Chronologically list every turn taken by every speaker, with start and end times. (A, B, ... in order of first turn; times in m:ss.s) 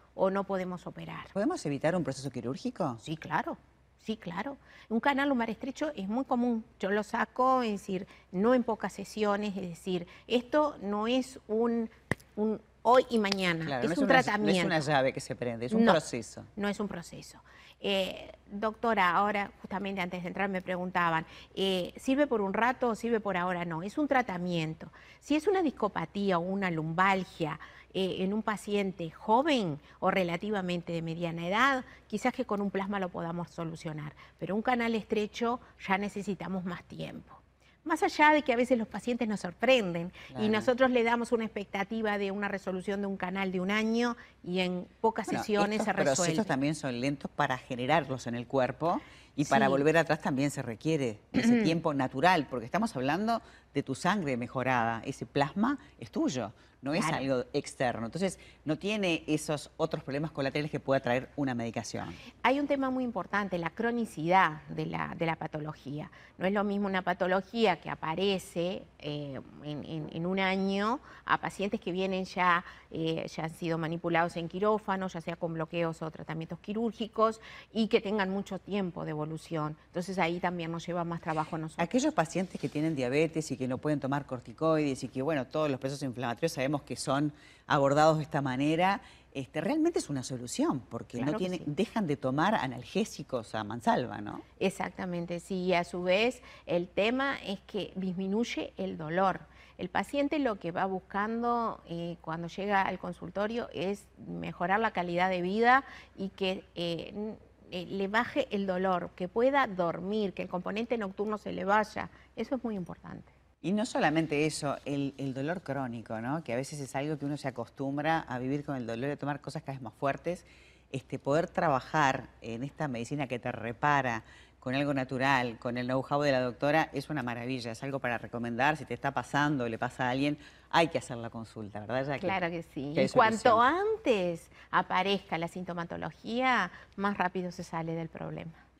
0:00.1-0:01.3 A
0:01.3-0:03.0 B
0:03.0-0:14.8 A
0:13.6-0:16.5 B
0:15.7-0:16.0 A
0:16.6-0:46.5 A
0:40.3-0:40.7 B
0:45.3-1:02.2 B
0:49.4-0:49.8 A
0:51.3-0:51.7 A
0:56.9-0:57.2 A
1:02.4-1:21.9 A
1:21.8-1:34.4 B
1:31.2-1:31.7 A
1:34.6-1:53.3 A
1:53.6-2:12.4 B
2:12.2-2:18.6 A
2:12.9-2:13.6 B